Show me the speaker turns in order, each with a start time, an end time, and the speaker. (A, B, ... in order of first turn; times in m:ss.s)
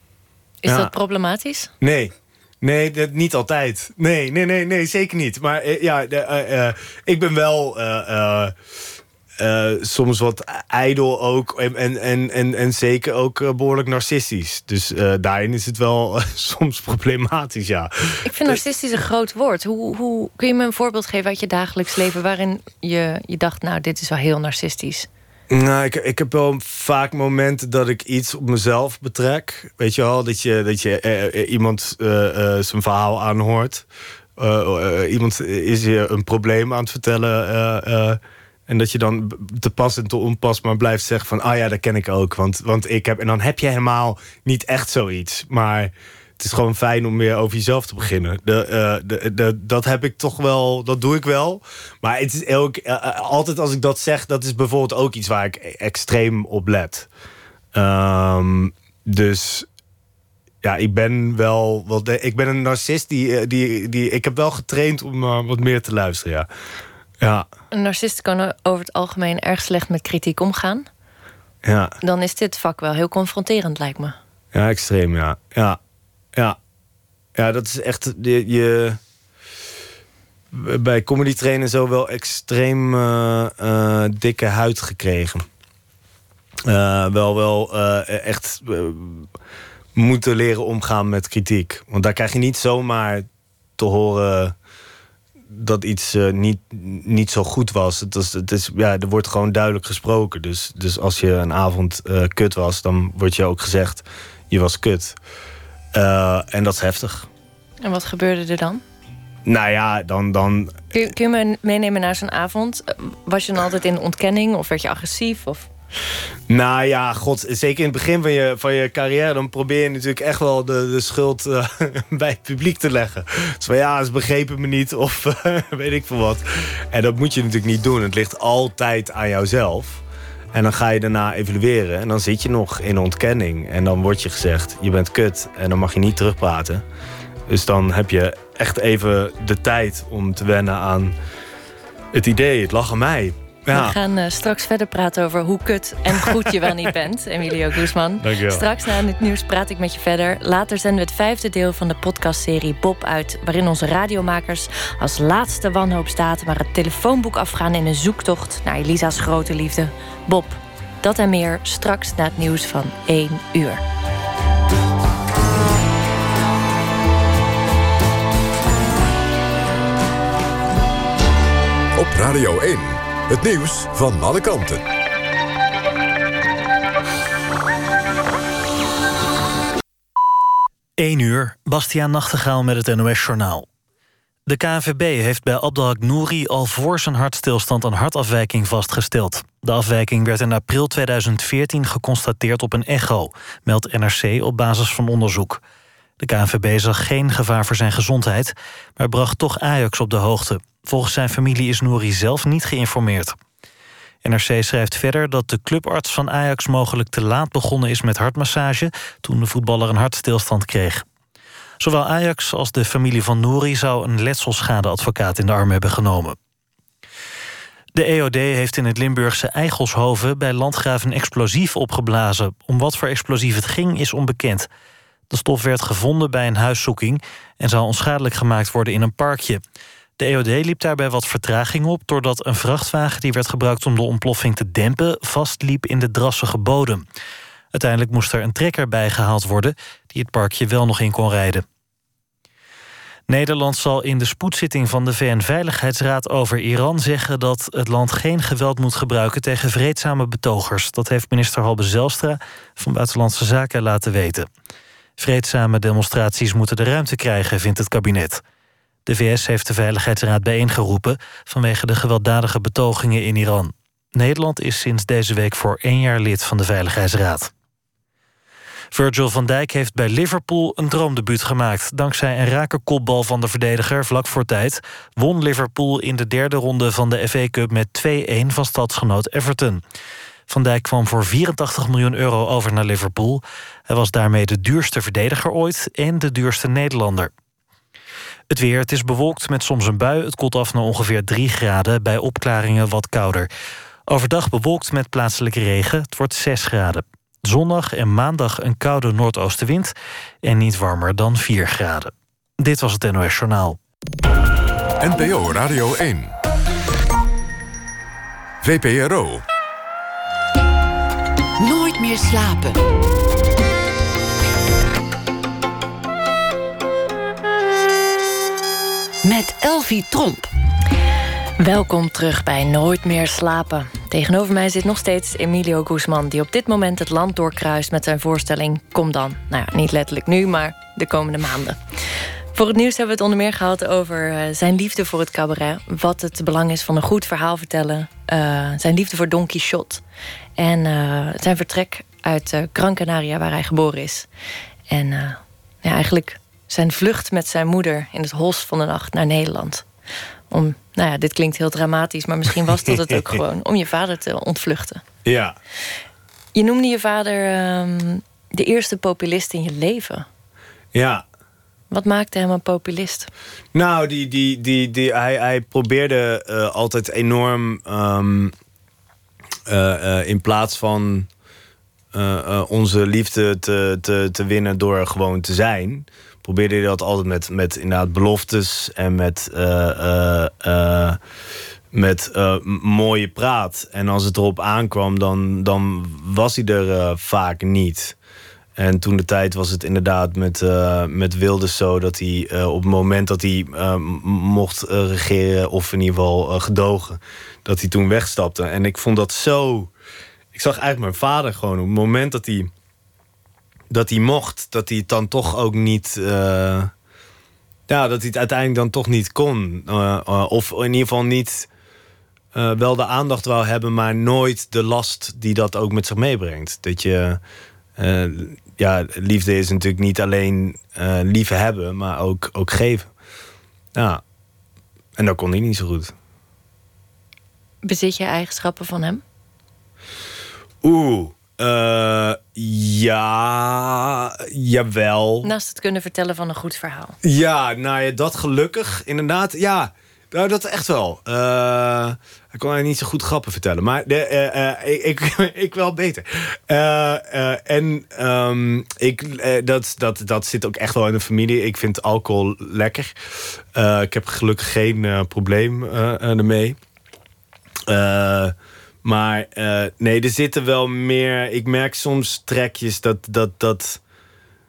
0:00.6-0:01.7 A
0:00.6-0:00.9 B
0:01.8-0:08.5 B
0:09.4-0:18.6 B
0:18.2-0:25.1 A
0:25.5-0:33.8 B
0:34.4-0:57.1 B
0:57.7-0:59.7 B
1:00.6-1:06.5 B
1:07.2-1:07.5 B
1:07.7-1:10.9 A
1:11.6-1:11.9 B
1:12.0-1:14.2 A
1:14.5-1:15.8 B
1:17.3-1:19.0 B
1:20.5-1:25.4 B
1:26.6-1:29.3 B
1:29.9-1:33.2 B
1:33.8-1:34.5 B
1:35.5-1:45.2 B
1:45.9-1:47.3 B
1:47.8-1:48.8 A
1:49.4-1:50.8 B
1:50.9-1:55.7 A
1:56.5-2:10.0 B
2:10.5-2:16.8 B
2:17.5-2:21.2 B
2:22.1-2:24.0 B
2:23.7-2:43.8 A
2:26.1-2:26.4 B
2:28.2-2:28.7 B
2:51.9-2:54.8 C
3:01.0-3:03.6 D
3:04.5-3:15.6 D
3:16.2-3:23.3 D
3:24.2-3:31.0 D
3:31.8-3:36.4 D
3:37.9-3:44.7 D
3:45.3-3:49.6 D
3:50.2-3:57.0 D
3:57.7-4:01.6 D
4:03.3-4:14.5 D
4:15.2-4:18.4 D
4:19.0-4:27.5 D
4:28.9-4:39.8 D
4:40.5-4:47.3 D
4:48.5-4:53.5 D
4:54.1-5:03.8 D
5:05.0-5:06.3 C
5:08.6-5:09.4 C
5:11.6-5:12.8 E
5:19.2-5:20.5 E
5:21.6-5:40.0 A
5:40.6-5:44.3 A
5:44.9-5:49.8 A
5:50.5-5:55.0 A
5:52.9-5:53.3 B
5:55.2-5:55.6 B
5:56.5-6:00.2 A
6:00.9-6:01.2 B
6:01.9-6:03.3 A
6:03.7-6:08.5 B
6:09.7-6:11.3 B
6:12.1-6:21.2 B
6:21.9-6:28.2 B
6:28.8-6:39.9 B
6:40.5-6:42.7 B
6:43.9-6:46.9 B
6:47.9-6:51.7 B
6:52.5-6:57.4 B
6:58.0-7:03.1 B
7:03.9-7:04.2 B
7:05.2-7:06.1 B
7:07.8-7:09.2 A
7:10.8-7:15.5 B
7:15.4-7:17.2 A
7:17.2-7:33.2 B
7:33.7-7:36.8 B
7:37.9-7:44.0 B